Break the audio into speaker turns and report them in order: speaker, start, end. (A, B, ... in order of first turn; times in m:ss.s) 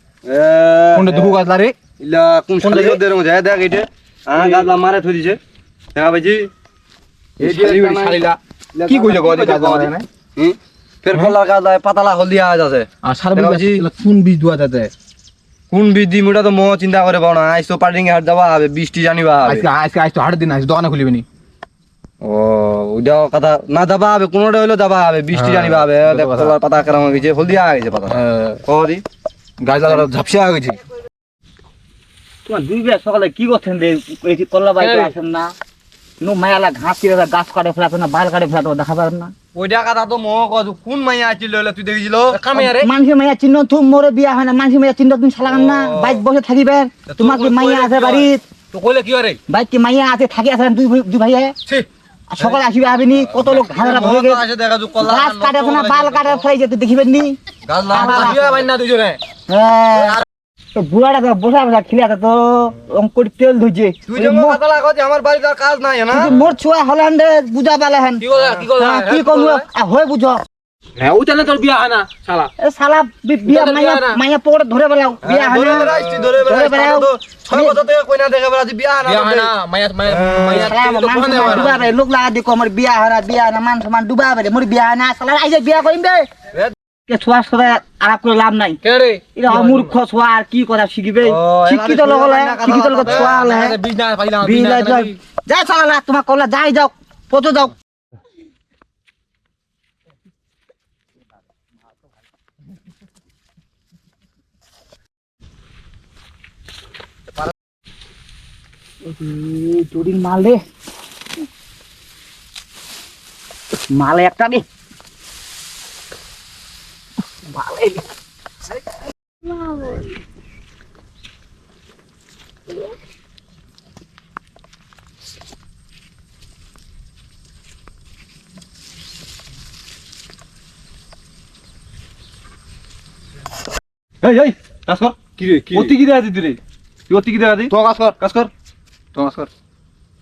0:00.2-0:01.4 A
0:00.9-0:01.8 B
0:02.0-0:05.4 A
0:02.6-0:03.0 B
0:04.4-0:04.7 B
0:05.9-0:06.5 A
0:07.4-0:08.2 A
0:07.4-0:10.1 B
0:08.7-0:13.8 A
0:13.0-0:14.9 B
0:15.7-0:19.7 A
0:19.4-0:21.2 B
0:22.2-0:29.0 A
0:25.3-0:26.5 B
0:28.1-0:28.6 B
0:29.6-0:30.8 B
0:32.4-0:35.5 C
0:34.8-0:35.1 B
0:36.2-0:39.3 C
0:39.5-0:42.4 A
0:42.3-0:42.9 B
0:42.5-0:48.4 C
0:45.4-0:46.2 A
0:47.1-0:48.3 A
0:48.7-0:49.4 B
0:49.5-0:51.5 C
0:52.3-0:54.4 C
0:53.2-0:56.4 A
0:55.0-0:57.4 C
0:57.6-0:58.7 A
0:57.9-0:58.4 C
0:57.9-0:59.2 B
0:59.5-1:00.2 C
1:00.7-1:04.6 C
1:04.1-1:06.3 A
1:06.1-1:10.4 C
1:08.2-1:09.6 B
1:11.0-1:12.5 B
1:12.6-1:17.8 C
1:13.4-1:14.2 B
1:15.2-1:19.5 A
1:15.6-1:16.2 B
1:19.0-1:21.9 B
1:20.1-1:20.8 A
1:20.5-1:26.3 C
1:21.4-1:21.7 A
1:27.1-1:28.8 C
1:28.8-1:29.9 B
1:29.3-1:33.8 C
1:31.2-1:33.4 A
1:33.0-1:35.2 B
1:34.4-1:37.7 C
1:49.0-1:50.6 C
1:53.9-1:54.6 C
1:57.4-1:58.1 C
1:59.4-2:00.1 C
2:14.2-2:16.6 A
2:15.7-2:16.5 B
2:17.1-2:18.5 A
2:17.7-2:18.2 B
2:19.1-2:19.5 B